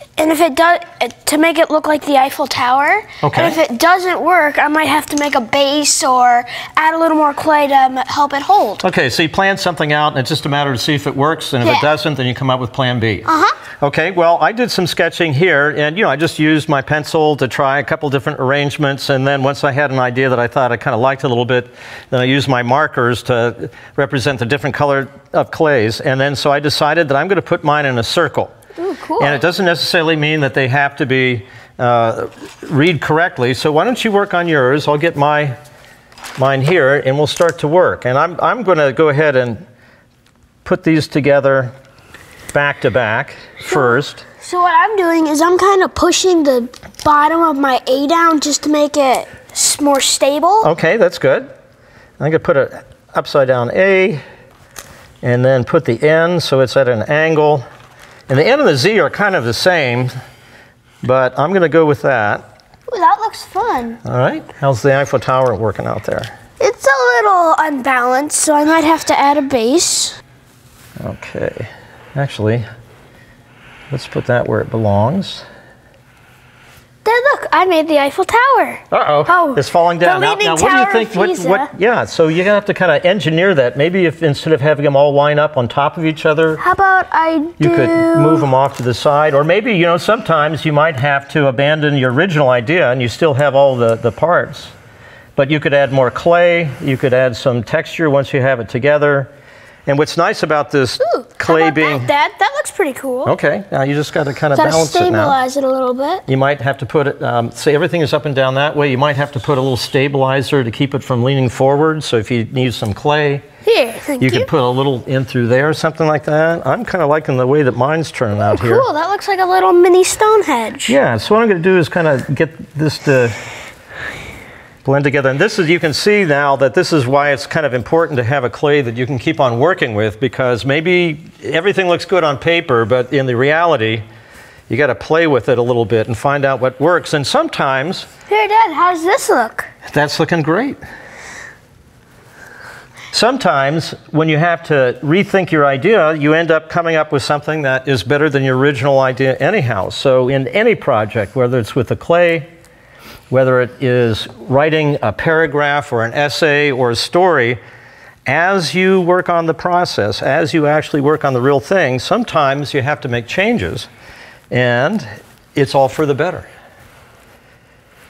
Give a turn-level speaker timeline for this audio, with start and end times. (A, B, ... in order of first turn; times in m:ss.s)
0:00.2-0:08.8 A
0:03.2-0:03.6 B
0:08.8-0:13.3 B
0:11.6-0:11.9 A
0:13.2-0:13.5 A
0:13.8-0:28.5 B
0:28.8-0:29.4 A
0:29.2-0:35.5 B
0:36.4-0:39.6 B
0:40.6-0:41.7 B
0:42.5-0:44.2 B
0:43.6-0:50.7 A
0:50.6-0:51.5 B
0:52.2-0:54.2 B
0:55.2-0:57.6 B
0:58.3-1:00.1 B
1:01.0-1:02.4 B
1:02.9-1:04.0 A
1:04.0-1:06.3 B
1:06.6-1:10.2 A
1:11.0-1:12.6 B
1:13.9-1:15.4 B
1:17.0-1:21.7 A
1:18.9-1:26.6 B
1:26.6-1:28.5 A
1:27.6-1:34.7 B
1:35.4-1:39.3 B
1:39.9-1:42.1 B
1:41.0-1:43.3 A
1:43.2-1:45.4 B
1:44.5-1:46.2 A
1:46.2-1:53.4 B
1:53.6-1:54.5 A
1:54.2-1:58.8 B
1:58.4-2:01.0 A
2:00.9-2:03.4 B
2:04.8-2:14.0 B
2:14.7-2:18.1 B
2:18.3-2:19.7 A
2:19.9-2:20.8 B
2:23.1-2:32.5 B
2:33.3-2:37.6 B
2:38.2-2:43.9 B
2:44.5-2:46.5 B